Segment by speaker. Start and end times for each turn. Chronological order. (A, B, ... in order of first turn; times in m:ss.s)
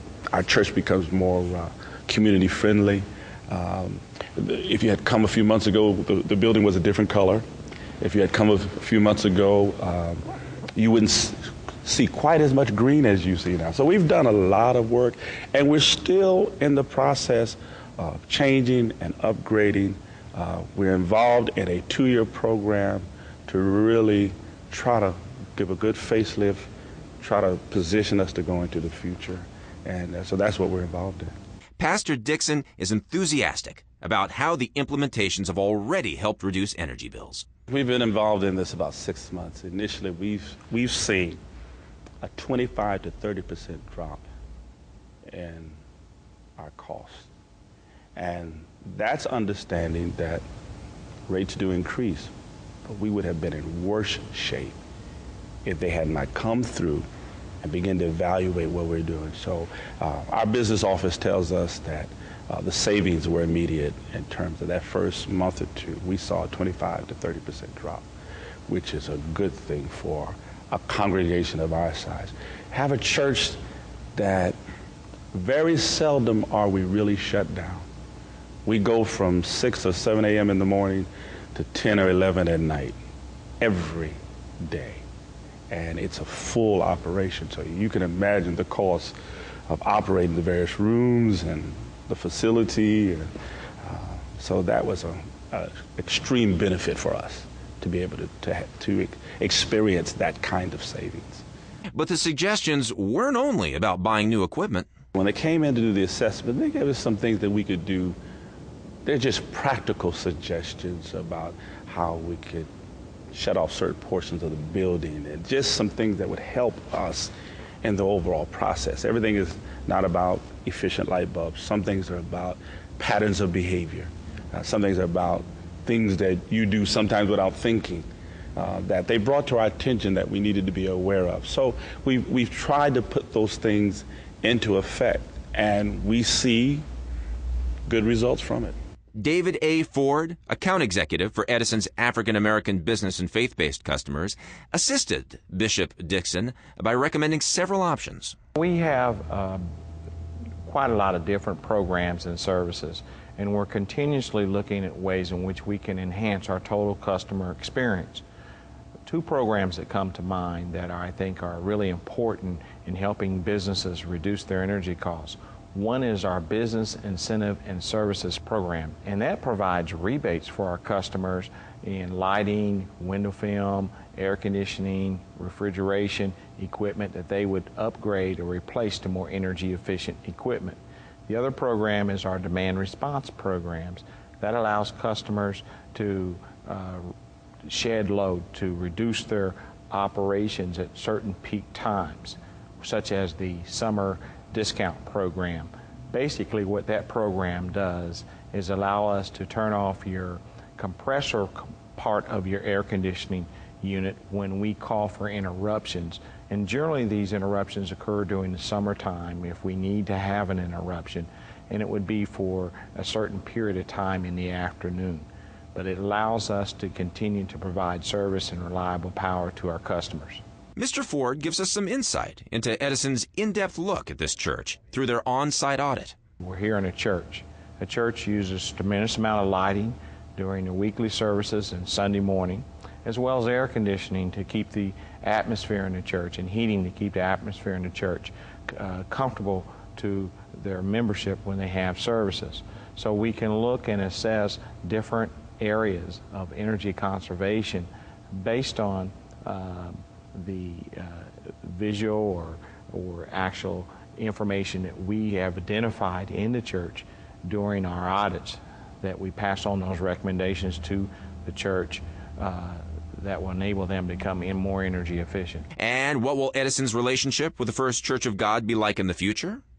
0:00.3-0:07.4 A
0:08.0-0:10.2 A
0:10.8-0:31.4 A
0:31.8-0:37.5 B
0:37.7-0:41.4 A
0:42.2-0:44.2 A
0:45.3-0:45.8 A
0:46.6-0:47.3 A
0:48.2-0:50.4 A
0:51.3-0:52.3 A
0:52.8-0:54.8 A
0:55.6-0:57.1 A
0:57.6-1:08.1 A
1:08.7-1:13.6 A
1:14.2-1:14.6 A
1:15.3-1:17.9 A
1:18.6-1:23.0 A
1:23.6-1:25.0 A
1:25.7-1:29.2 A
1:29.7-1:33.3 A
1:33.8-1:41.4 A
1:41.9-1:44.9 B
1:45.2-1:48.2 A
1:49.0-1:52.7 A
1:53.3-2:16.8 A
2:17.9-2:18.8 A
2:19.2-2:28.4 B
2:28.6-2:29.6 C
2:30.6-2:38.2 C
2:39.1-3:07.1 C
3:07.6-3:40.4 C
3:40.8-3:46.2 B
3:46.4-4:25.7 C
4:25.8-4:29.6 B